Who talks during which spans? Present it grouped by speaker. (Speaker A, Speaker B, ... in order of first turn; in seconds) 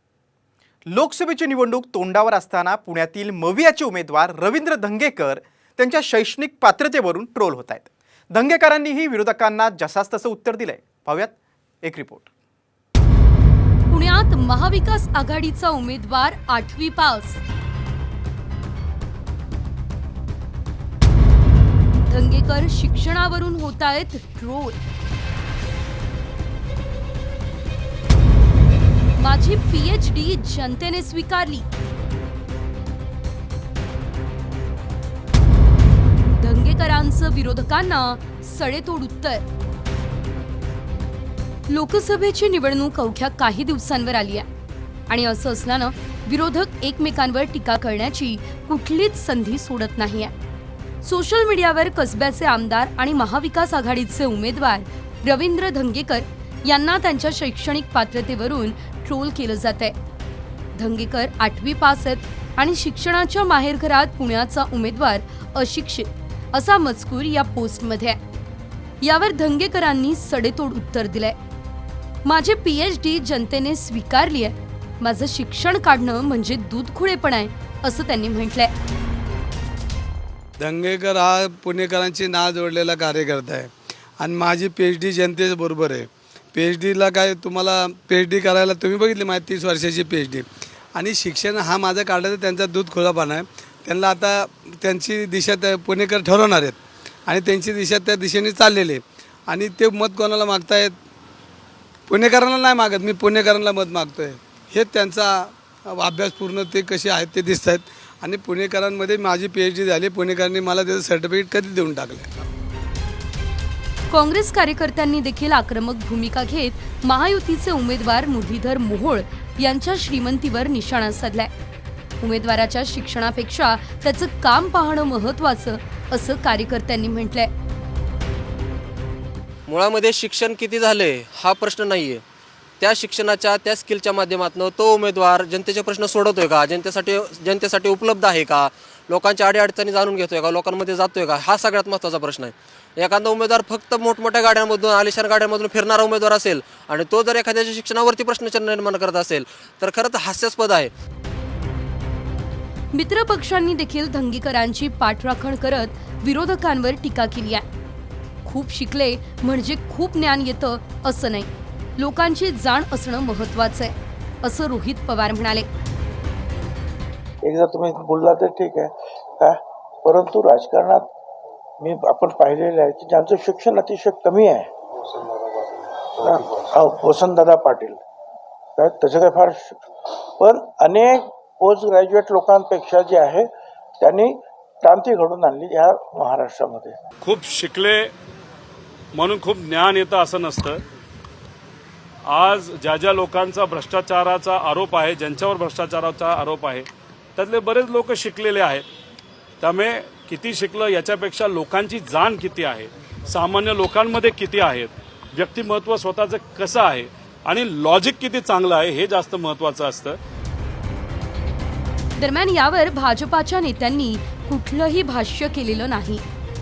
Speaker A: 0.9-12.3
Speaker B: 13.9-17.4, 22.1-24.8, 29.2-31.7, 36.4-39.4, 41.7-44.5, 45.1-50.3, 51.0-60.0, 60.8-68.2, 69.0-71.4, 72.2-78.7, 114.1-121.5, 122.2-127.5, 152.9-157.7, 158.4-165.7, 212.2-216.2
Speaker C: 80.6-101.0, 102.1-112.3
Speaker D: 129.7-132.2, 132.8-150.9
Speaker E: 167.4-171.1, 171.8-174.7, 176.2-178.0, 178.8-183.5, 184.0-187.0
Speaker F: 187.2-188.1, 189.1-190.8, 192.3-198.8, 199.6-210.2